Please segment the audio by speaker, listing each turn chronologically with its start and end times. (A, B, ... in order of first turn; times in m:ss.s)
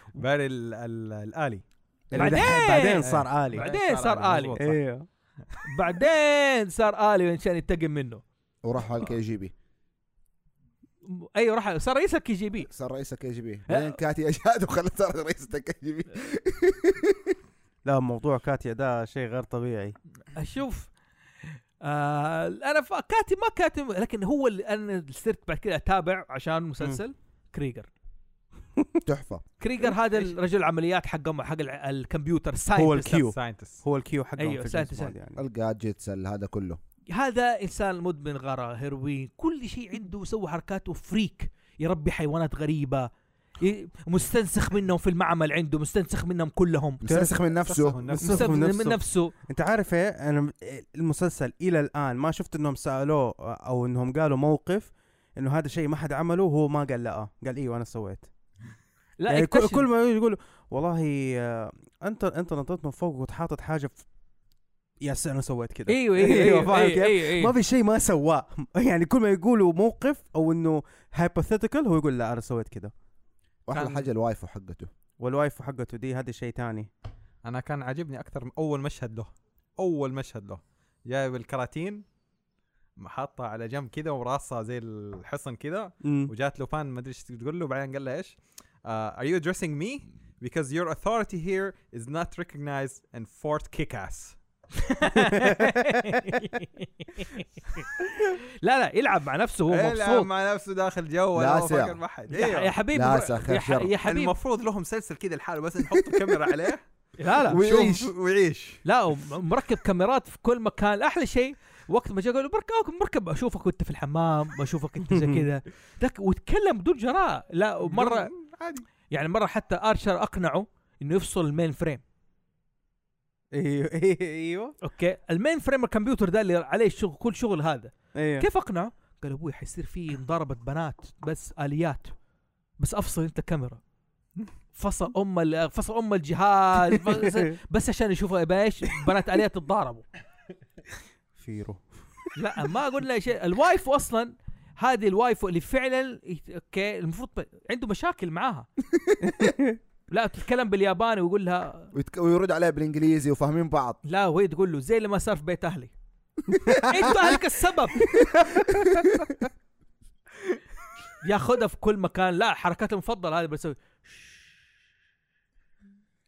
0:00.2-0:01.6 A
0:02.1-0:03.7 B
0:02.2-0:04.6 C
0:03.0-0:04.8 A
0:04.6-0:05.1 B
0:05.6-0:08.2 C
0:08.6-0:09.5 D
0:11.1-0:12.7 C
0:12.7-0:17.4 D
0:13.7-0:14.0 C
0:17.8-0:20.0 B
0:20.3-0:20.9 C
0:21.5-0:27.9 C
0:29.0-0:29.4 D
0:29.6-0:33.2 C
0:32.8-0:35.4 B
0:33.3-0:33.8 A
0:34.4-0:35.1 C
0:35.4-0:36.8 D
0:37.1-0:47.0 C
0:47.0-0:48.0 D
0:47.0-0:47.4 B
0:47.6-0:48.6 A
0:48.1-0:58.3 B
0:48.2-0:49.3 C
0:59.2-0:59.9 C
0:59.3-1:04.0 B
1:05.0-1:12.9 B
1:05.9-1:07.5 C
1:13.7-1:14.9 D
1:15.2-1:16.9 B
1:17.4-1:22.0 A
1:23.0-1:34.4 A
1:26.0-1:26.3 B
1:34.8-1:37.9 C
1:38.6-1:40.3 C
1:39.7-1:42.8 A
1:41.4-1:42.0 D
1:42.3-1:44.3 C
1:42.9-1:43.9 D
1:44.0-1:46.8 A
1:45.9-1:46.4 D
1:47.2-1:47.6 C
1:47.5-1:48.1 D
1:47.6-1:48.8 A
1:48.8-1:58.3 C
1:55.1-1:55.5 B
1:57.9-1:58.9 A
1:59.1-2:02.0 C
2:03.5-2:04.8 B
2:04.8-2:12.1 C
2:08.2-2:08.5 B
2:12.8-2:13.8 C
2:14.7-2:20.0 C
2:21.4-2:21.8 B
2:22.4-2:28.7 C
2:29.2-2:29.8 B
2:30.1-2:31.9 C
2:31.9-2:34.0 D
2:34.0-2:35.9 C
2:36.6-2:37.1 D
2:36.8-2:38.2 C
2:38.2-2:39.2 D
2:41.2-2:44.3 C